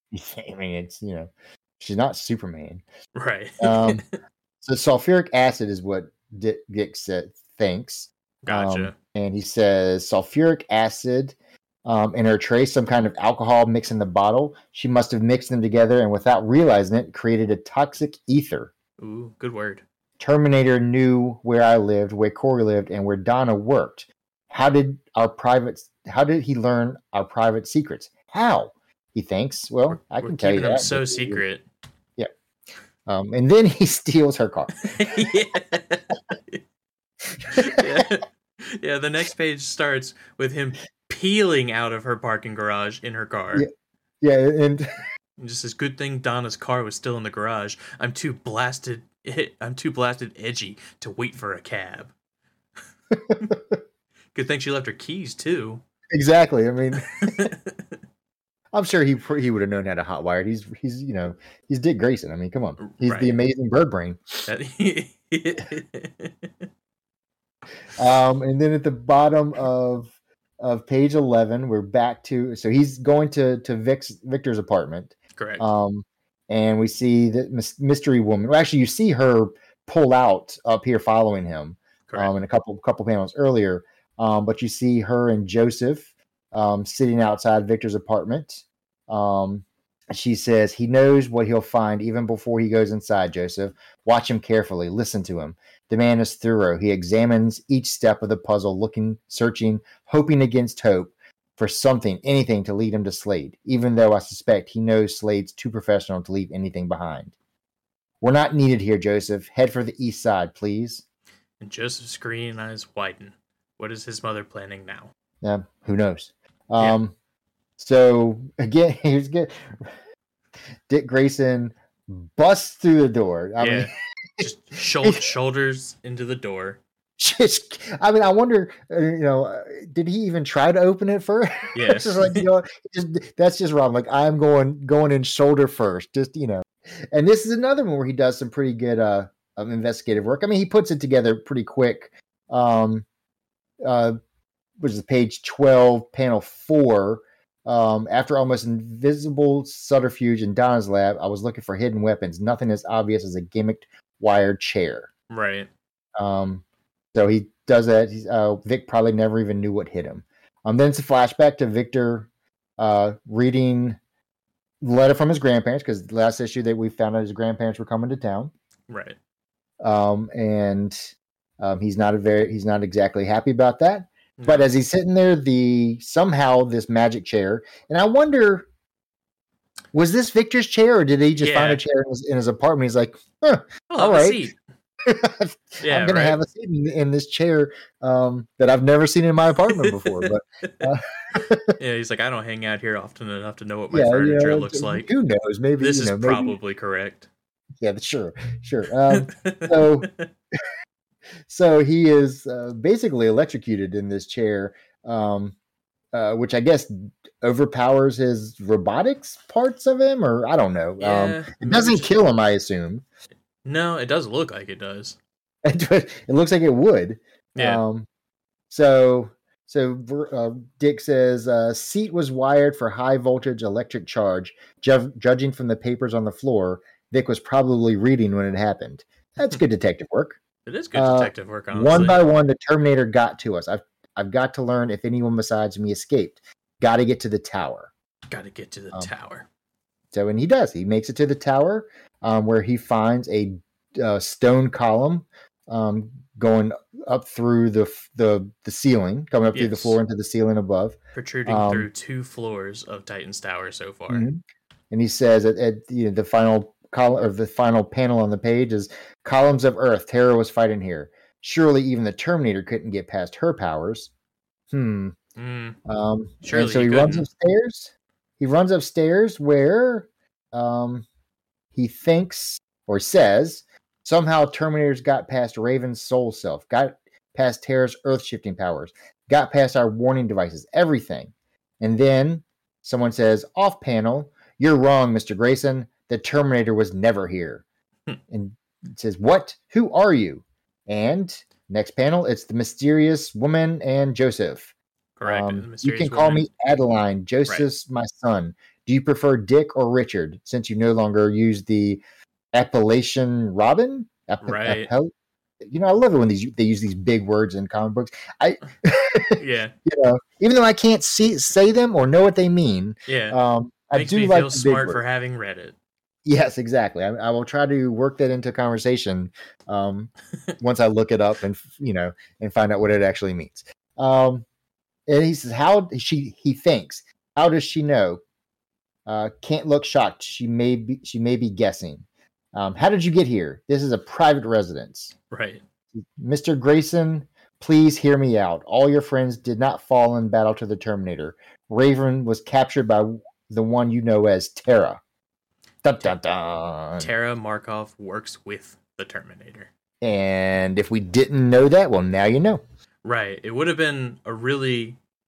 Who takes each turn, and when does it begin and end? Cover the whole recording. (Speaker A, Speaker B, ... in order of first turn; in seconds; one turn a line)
Speaker A: 0.1-2.8
Speaker B: 3.1-4.1
Speaker A: 3.6-4.0
Speaker A: 4.6-18.7
Speaker B: 8.4-8.9
Speaker B: 19.0-19.8
Speaker A: 20.2-31.4
Speaker B: 29.9-31.6
Speaker A: 33.1-35.1
Speaker B: 34.8-36.6
Speaker A: 37.4-38.1
Speaker B: 37.5-43.7
Speaker A: 44.2-44.9
Speaker B: 45.4-52.1
Speaker A: 53.1-53.8
Speaker B: 54.3-55.8
Speaker A: 56.1-57.5
Speaker B: 57.1-57.9
Speaker A: 58.7-64.5
Speaker B: 62.8-63.4
Speaker B: 64.5-66.5
Speaker A: 68.0-107.3
Speaker B: 75.4-75.7
Speaker B: 82.1-82.3
Speaker A: 108.2-111.0
Speaker B: 111.6-115.1
Speaker A: 115.4-117.1
Speaker A: 117.8-119.9
Speaker A: 120.9-124.5
Speaker B: 123.6-126.8
Speaker A: 125.0-125.3
Speaker A: 127.2-143.1
Speaker B: 131.8-132.5
Speaker A: 143.8-144.2
Speaker A: 144.8-155.1
Speaker B: 155.3-155.7
Speaker A: 156.2-156.6
Speaker A: 157.1-164.0
Speaker A: 164.8-168.5
Speaker B: 168.9-169.2
Speaker A: 169.8-178.7
Speaker B: 174.4-174.7
Speaker A: 179.9-184.4
Speaker B: 181.4-181.8
Speaker B: 183.9-184.6
Speaker A: 185.0-191.8
Speaker B: 185.8-186.4
Speaker B: 189.7-190.9
Speaker B: 191.8-195.1
Speaker A: 193.9-196.6
Speaker B: 195.8-197.3
Speaker A: 197.8-200.1
Speaker B: 199.1-200.3
Speaker A: 201.5-205.6
Speaker A: 206.1-213.1
Speaker B: 211.0-212.1
Speaker B: 213.7-215.2
Speaker A: 215.7-218.1
Speaker B: 217.6-217.8
Speaker A: 218.7-230.4
Speaker B: 230.7-232.2
Speaker A: 230.9-237.9
Speaker B: 238.3-239.5
Speaker A: 240.1-251.9
Speaker B: 249.5-250.0
Speaker B: 251.1-254.3
Speaker A: 254.1-254.4
Speaker A: 254.9-264.1
Speaker A: 264.7-265.2
Speaker B: 265.4-265.8
Speaker A: 265.9-271.1
Speaker B: 266.4-267.3
Speaker A: 271.7-287.6
Speaker A: 288.3-294.7
Speaker B: 295.2-296.5
Speaker A: 295.2-302.0
Speaker A: 302.5-315.0
Speaker B: 304.4-304.9
Speaker B: 309.4-309.8
Speaker B: 313.1-313.4
Speaker B: 313.9-315.8
Speaker A: 316.2-324.4
Speaker A: 325.1-328.2
Speaker A: 329.1-335.1
Speaker B: 335.3-335.6
Speaker A: 336.2-345.0
Speaker A: 345.8-347.1
Speaker B: 347.0-349.7
Speaker A: 350.0-352.6
Speaker B: 353.0-355.0